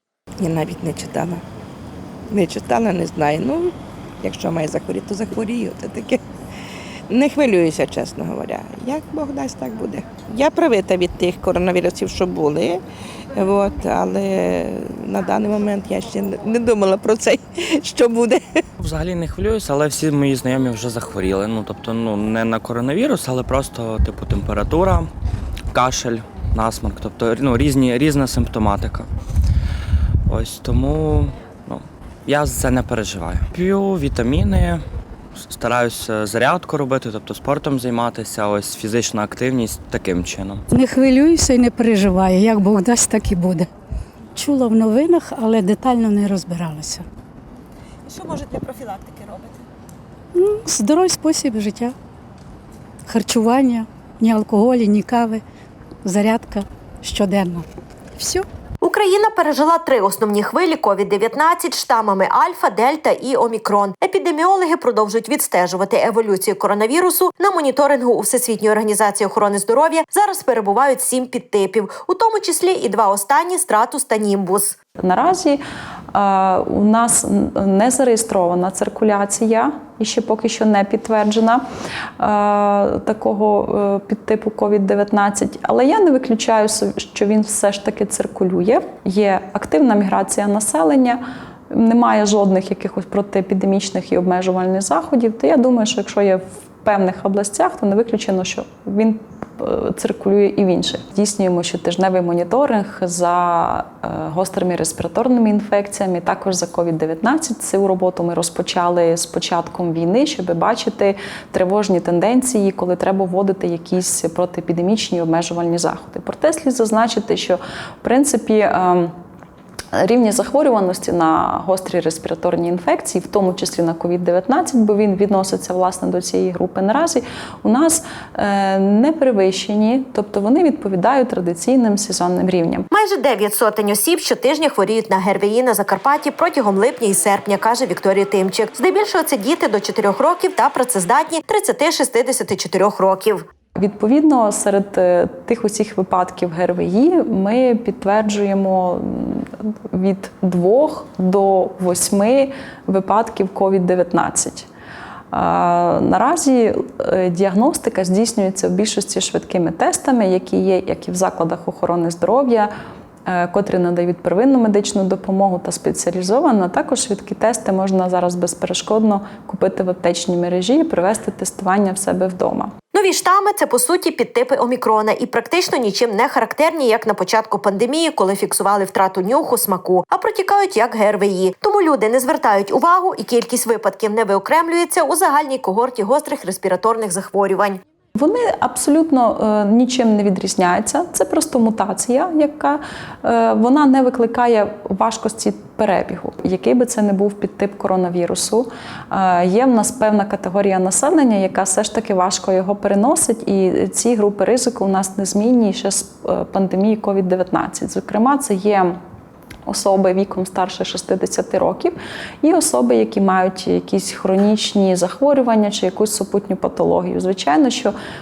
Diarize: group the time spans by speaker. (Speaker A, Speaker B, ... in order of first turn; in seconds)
Speaker A: 0.4-1.4, 2.3-6.2, 7.1-12.8, 13.3-18.6
Speaker B: 18.8-25.1, 25.7-29.1, 30.3-34.8, 35.4-40.6
Speaker C: 40.7-43.7, 44.4-47.0, 50.3-51.9, 53.1-55.4, 56.0-57.6, 58.2-58.5
Speaker D: 48.1-49.5, 58.8-74.8, 132.9-143.4, 172.9-187.8
Speaker E: 75.0-81.6, 82.2-119.1, 119.9-132.9, 143.7-154.7, 155.3-162.7, 163.2-172.7, 188.1-209.0, 209.7-217.9